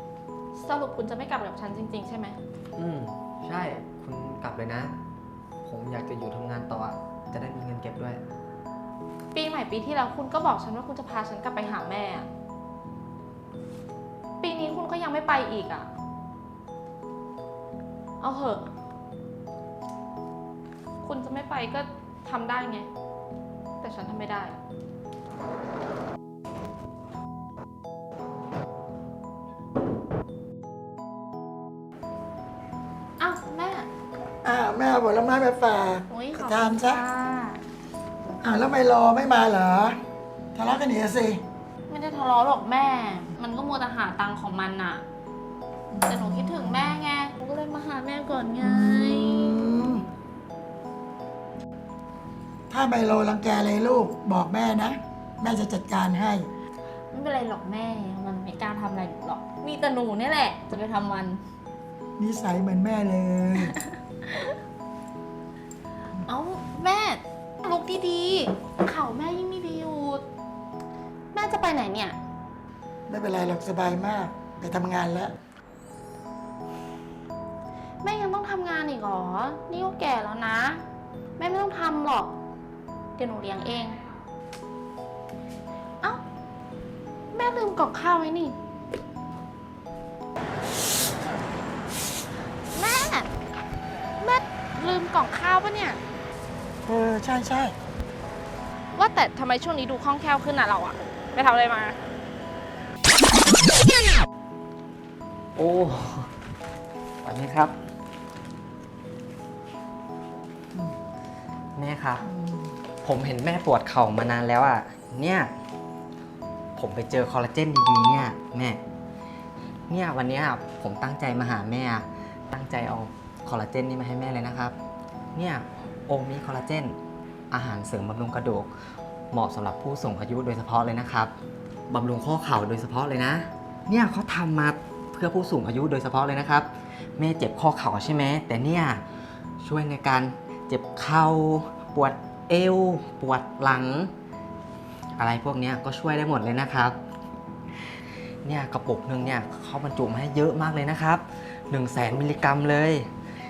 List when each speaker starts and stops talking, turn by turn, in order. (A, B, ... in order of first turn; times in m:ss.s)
0:00.5-0:02.4 A
0:02.8-0:04.9 B
0:05.6-0:08.2 B
0:09.3-0:12.3 A
0:14.4-0:15.9 A
0:18.2-0:18.7 A
0:21.0-0:22.9 A
0:23.8-0:24.6 A
0:33.2-0:33.9 A
0:34.4-0:37.0 C
0:36.1-0:37.6 A
0:38.4-0:40.0 C
0:40.6-0:41.4 C
0:41.9-0:45.0 A
0:45.9-0:47.0 C
0:46.0-0:49.7 A
0:48.6-0:50.0 C
0:52.7-0:56.5 C
0:57.1-1:01.4 A
1:02.2-1:03.8 C
1:03.7-1:04.5 A
1:06.2-1:10.2 A
1:11.3-1:12.2 A
1:13.1-1:15.3 C
1:18.0-1:20.8 A
1:21.4-1:22.4 A
1:23.2-1:24.0 A
1:27.3-1:28.6 A
1:32.7-1:33.3 A
1:34.2-1:36.0 A
1:36.9-1:37.8 C
1:39.0-1:42.0 A
1:45.6-1:46.3 B
1:47.2-1:47.8 B
1:51.8-1:52.3 B
1:52.3-1:52.6 C
1:53.0-1:55.5 B
1:56.8-1:58.8 B
1:59.9-2:04.8 B
2:05.4-2:07.0 B
2:07.5-2:08.7 B
2:09.3-2:11.3 B
2:11.9-2:19.0 B
2:19.6-2:24.1 B
2:25.2-2:27.0 B
2:28.4-2:33.1 B